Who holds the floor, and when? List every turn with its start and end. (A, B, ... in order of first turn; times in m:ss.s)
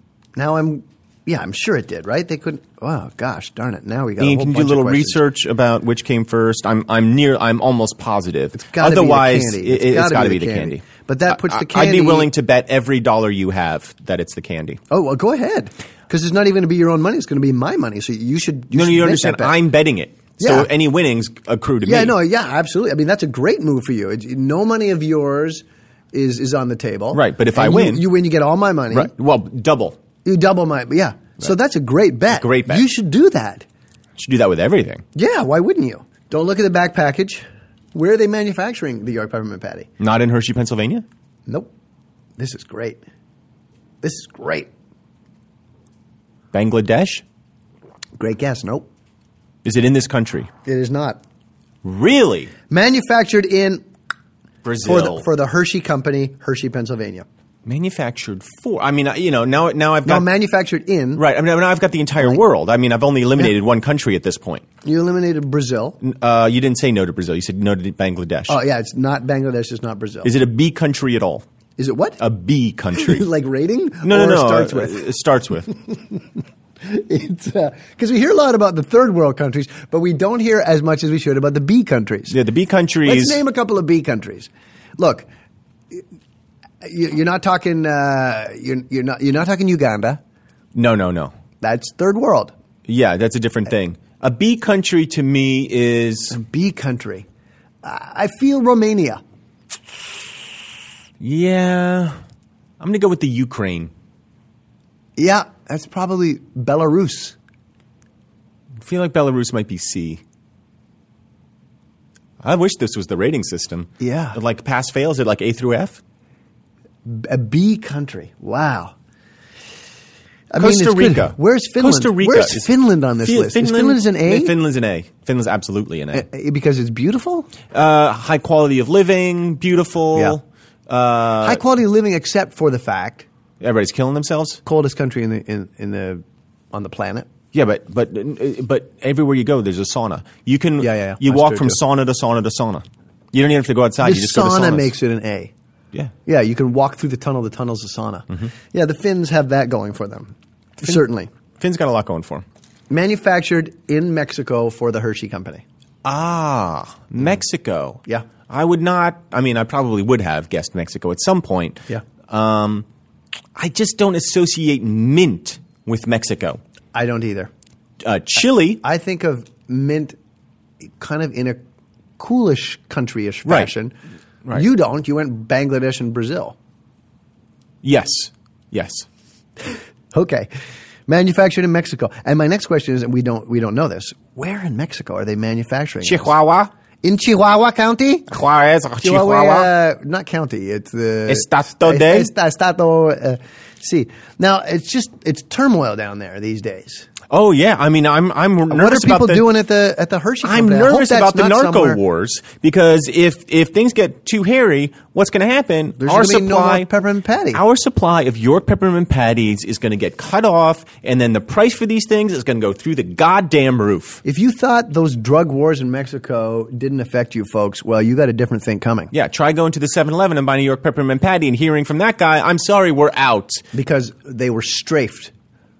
0:00.4-0:05.2 A
0:04.2-0:14.8 B
0:08.6-0:12.3 A
0:14.9-0:19.6 A
0:18.7-0:22.2 B
0:20.4-0:20.7 A
0:21.8-0:29.1 A
0:27.1-0:28.1 B
0:28.9-0:30.0 B
0:30.2-0:33.6 A
0:32.3-0:32.9 B
0:34.2-0:35.0 B
0:35.2-0:39.9 A
0:40.0-0:41.0 B
0:42.4-0:43.0 A
0:44.0-0:44.7 A
0:46.5-0:47.2 B
0:48.2-0:48.9 A
0:49.6-0:50.5 B
0:50.6-0:51.2 A
0:51.8-0:52.5 B
0:52.7-0:53.8 A
0:54.6-0:55.3 B
0:54.8-0:57.3 A
0:57.6-1:00.3 B
1:00.1-1:01.2 A
1:01.2-1:04.6 B
1:04.8-1:06.0 A
1:06.0-1:08.6 B
1:08.5-1:10.3 A
1:10.2-1:11.4 B
1:11.8-1:12.2 A
1:12.2-1:13.3 B
1:13.0-1:15.1 A
1:14.0-1:15.7 B
1:15.9-1:16.2 A
1:16.8-1:22.4 A
1:22.3-1:23.4 B
1:23.1-1:25.3 A
1:26.8-1:30.2 A
1:30.7-1:31.4 B
1:31.6-1:32.5 A
1:32.9-1:36.4 B
1:36.3-1:37.3 A
1:37.8-1:39.2 A
1:41.2-1:42.2 B
1:42.8-1:43.9 B
1:45.2-1:47.4 A
1:48.8-1:50.2 B
1:52.4-1:56.0 B
1:54.0-1:54.4 A
1:57.0-1:58.9 A
2:00.5-2:04.6 A
2:00.6-2:06.3 B
2:06.1-2:07.5 A
2:07.7-2:11.6 B
2:11.4-2:13.3 A
2:13.6-2:14.6 B
2:14.6-2:17.3 A
2:17.5-2:25.0 B
2:20.8-2:21.8 A
2:24.0-2:25.5 A
2:26.3-2:31.3 A
2:31.6-2:32.4 B
2:32.9-2:35.6 A
2:36.0-2:42.9 B
2:43.6-2:46.6 B
2:46.9-2:47.5 A
2:48.0-2:48.8 B
2:48.8-2:50.2 A
2:51.0-2:51.6 A
2:52.2-2:53.9 A
2:53.5-2:53.7 B
2:54.5-2:56.6 A
2:57.8-2:59.1 B
3:00.1-3:00.5 A
3:01.1-3:06.3 A
3:06.0-3:06.7 B
3:07.0-3:08.3 A
3:08.3-3:09.7 B
3:09.0-3:17.1 A
3:11.3-3:12.3 B
3:17.3-3:19.5 B
3:18.7-3:22.0 A
3:20.4-3:26.9 B
3:26.0-3:27.6 A
3:27.5-3:34.2 B
3:34.2-3:39.1 A
3:39.1-3:43.6 B
3:43.7-3:45.3 A